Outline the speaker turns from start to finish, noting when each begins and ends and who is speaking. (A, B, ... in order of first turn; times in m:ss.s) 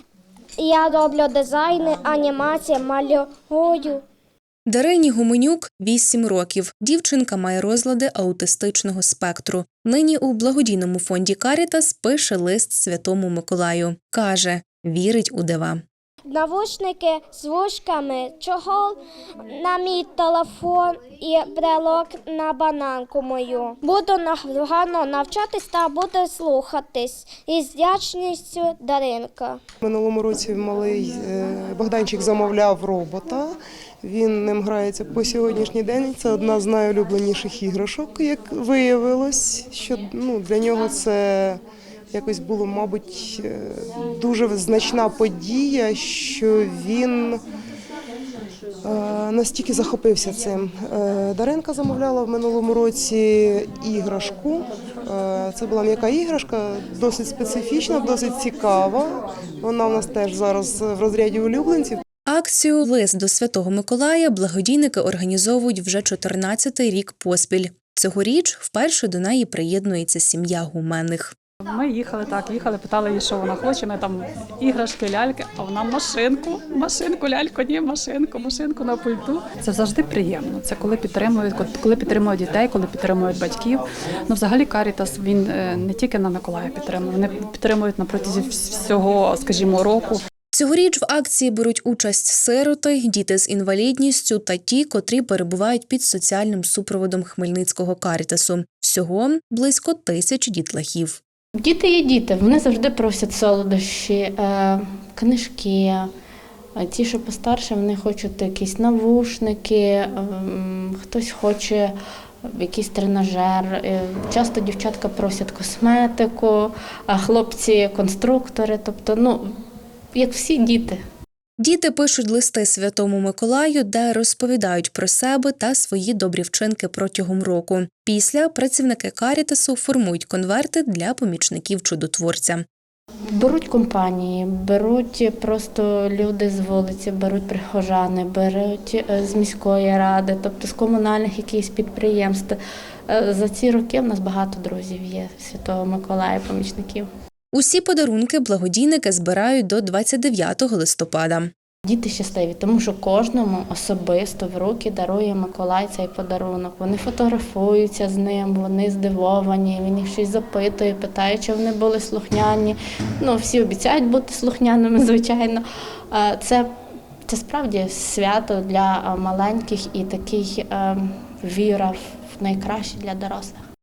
0:00.6-0:04.0 A
0:04.7-0:15.8 B
0:16.3-0:19.0 A
0:19.5-0:29.6 A
0:29.8-0:33.5 C
0:34.0-0:41.6 C
0:42.1-0:47.4 C
0:48.8-1:02.0 C
1:02.3-1:11.3 B
1:11.6-1:30.2 D
1:30.5-1:41.2 B
1:41.6-1:46.1 E
1:46.8-1:59.5 E
2:00.2-2:01.0 E
2:01.6-2:12.6 B
2:13.3-2:22.6 E
2:23.1-2:27.1 E
2:27.5-2:31.5 B
2:31.9-2:46.7 E
2:47.3-2:53.6 E